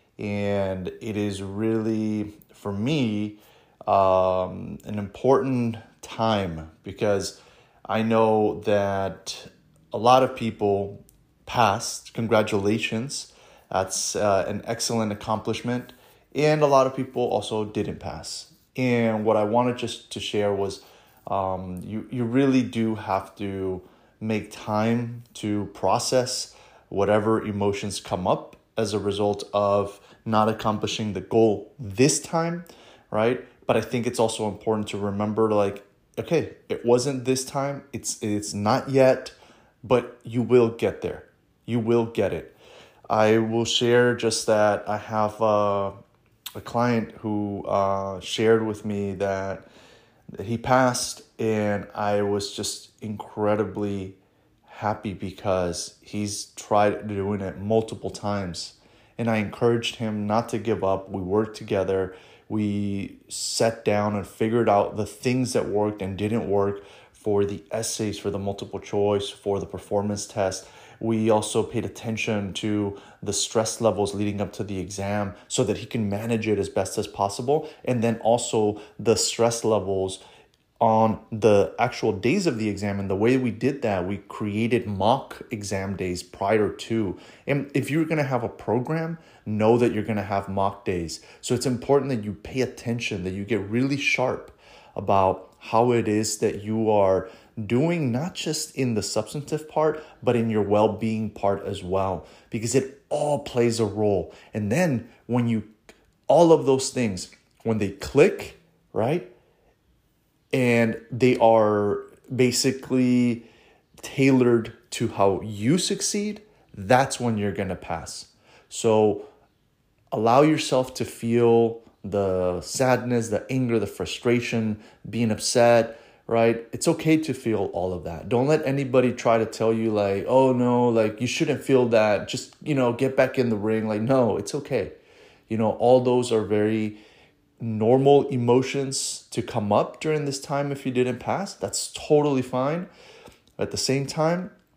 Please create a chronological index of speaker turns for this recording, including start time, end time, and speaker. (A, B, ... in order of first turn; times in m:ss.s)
0:00.2-0:42.6 A
0:43.1-0:46.0 A
0:46.6-0:49.7 A
0:50.4-1:20.2 A
1:20.8-1:45.7 A
1:46.3-1:49.3 A
1:50.5-1:53.4 A
1:54.0-1:59.3 A
2:00.1-2:15.0 A
2:15.5-2:17.0 A
2:17.6-2:22.9 A
2:23.6-2:24.5 A